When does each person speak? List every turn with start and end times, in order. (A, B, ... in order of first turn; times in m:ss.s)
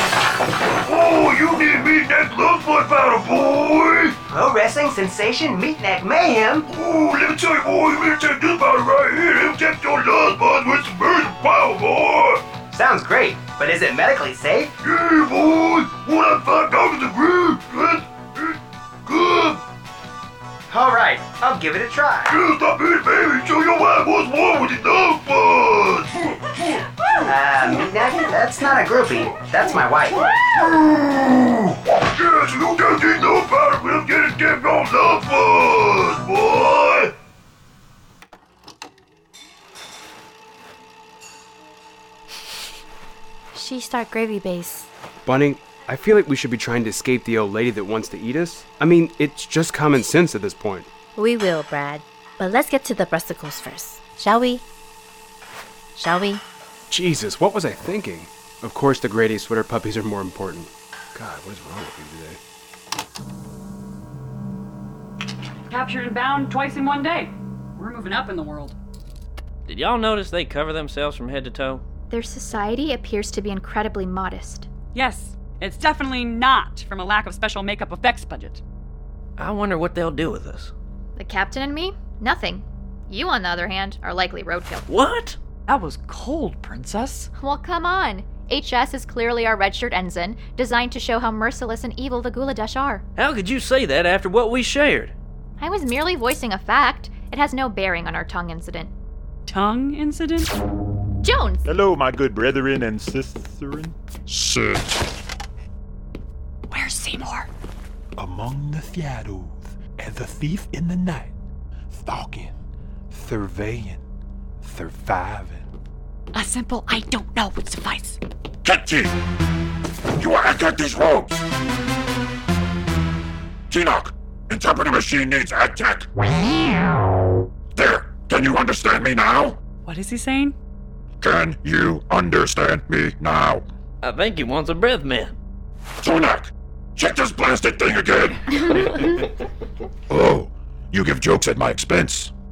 0:00.8-0:04.2 A
0:04.3-0:06.7 B
0:06.7-0:12.4 A
0:12.7-0:14.7 B
0:14.8-0:19.6 A
0:20.7-0:22.4 B
0:22.3-0:26.2 A
0:27.2-0:30.2 B
0:30.5-0:37.1 A
0:43.5-0:44.9 C
0:45.2-0:50.9 D
0:51.2-0:54.6 C
0:56.0-0:56.4 C
0:56.9-1:02.4 D
1:05.7-1:08.8 E
1:09.7-1:11.8 F
1:12.1-1:14.7 G
1:14.9-1:18.6 E
1:19.4-1:20.7 F
1:21.2-1:24.8 G
1:24.9-1:25.4 F
1:25.7-1:27.3 E
1:27.4-1:33.0 G
1:33.2-1:35.1 F
1:35.6-1:38.9 G
1:39.5-1:40.5 E
1:41.2-1:41.6 G
1:41.6-1:44.0 H
1:44.3-1:45.0 I
1:46.7-1:47.5 E
1:48.2-1:51.3 H
1:51.9-1:52.5 H
1:53.1-1:54.0 H
1:54.6-1:55.7 H
1:56.3-1:58.2 E
1:58.6-1:59.1 I
2:00.2-2:01.4 I
2:03.7-2:06.1 I
2:07.8-2:09.6 I
2:09.8-2:10.6 E
2:11.2-2:13.6 I
2:14.0-2:15.4 F
2:16.0-2:19.0 I
2:20.1-2:22.3 I